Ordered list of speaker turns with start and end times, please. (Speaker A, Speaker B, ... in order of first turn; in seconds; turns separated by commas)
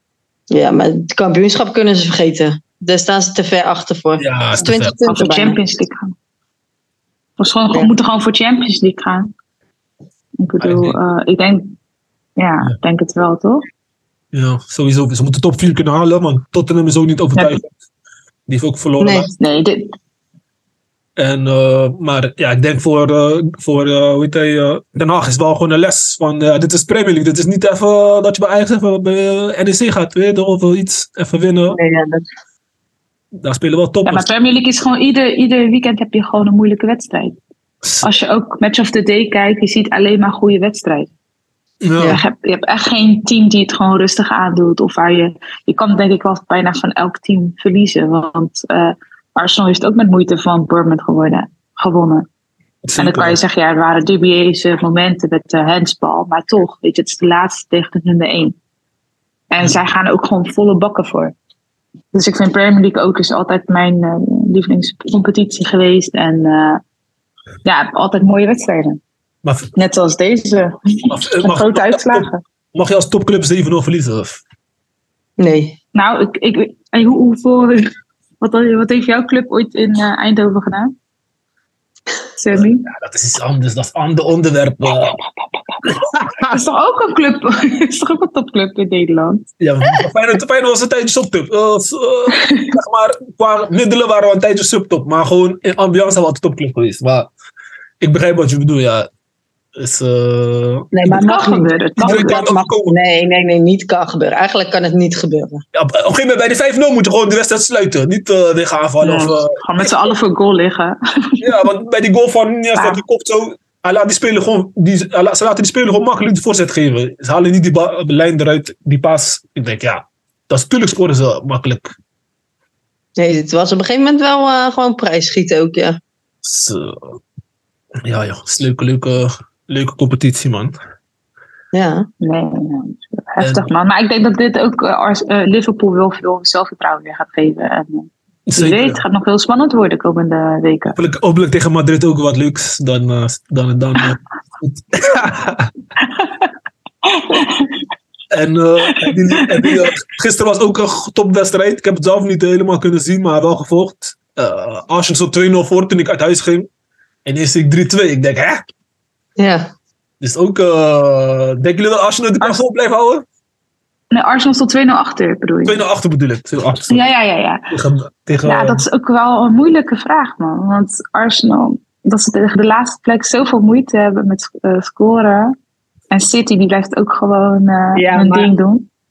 Speaker A: 0.5-5.6, Speaker B: 4.2-5.0, Speaker C: 4.6-6.2, Speaker C: 7.4-9.3, Speaker C: 10.4-11.8, Speaker B: 10.6-11.0, Speaker C: 12.4-13.7, Speaker B: 14.3-17.7, Speaker B: 18.5-19.3, Speaker A: 19.0-19.3, Speaker C: 19.4-19.9, Speaker B: 21.2-31.8, Speaker A: 31.8-32.2, Speaker B: 33.4-34.3, Speaker C: 34.0-37.4, Speaker C: 38.0-41.1, Speaker B: 41.8-42.2, Speaker C: 42.0-52.3, Speaker B: 52.9-53.4, Speaker C: 53.0-58.6, Speaker C: 59.5-61.4, Speaker C: 62.1-66.8, Speaker C: 67.7-69.0, Speaker B: 69.4-69.7, Speaker C: 69.8-72.4, Speaker B: 71.1-74.4, Speaker A: 75.4-75.8, Speaker C: 76.0-80.9, Speaker C: 82.4-82.9, Speaker B: 82.5-85.2, Speaker C: 84.9-90.0, Speaker B: 85.9-86.6, Speaker B: 89.6-97.3, Speaker C: 92.3-92.8, Speaker B: 98.0-99.1, Speaker B: 99.8-101.2, Speaker A: 100.9-105.6, Speaker C: 101.1-102.4, Speaker B: 102.0-103.0, Speaker B: 105.7-109.9, Speaker C: 109.0-111.4, Speaker B: 111.4-121.9, Speaker C: 112.8-113.0, Speaker A: 123.2-126.0, Speaker B: 126.4-127.2, Speaker B: 128.0-130.8, Speaker A: 131.7-132.1, Speaker C: 132.2-141.0, Speaker B: 133.4-133.7, Speaker B: 138.5-139.0, Speaker B: 141.0-145.7, Speaker C: 146.0-146.5, Speaker C: 147.1-147.8, Speaker B: 148.3-156.7, Speaker C: 148.9-149.9, Speaker B: 157.2-158.6, Speaker A: 159.4-159.7, Speaker B: 160.2-163.3, Speaker C: 164.1-165.8, Speaker B: 165.7-167.1, Speaker C: 166.9-167.7, Speaker B: 167.7-168.8, Speaker C: 168.5-175.6, Speaker C: 176.1-178.9, Speaker A: 178.0-178.5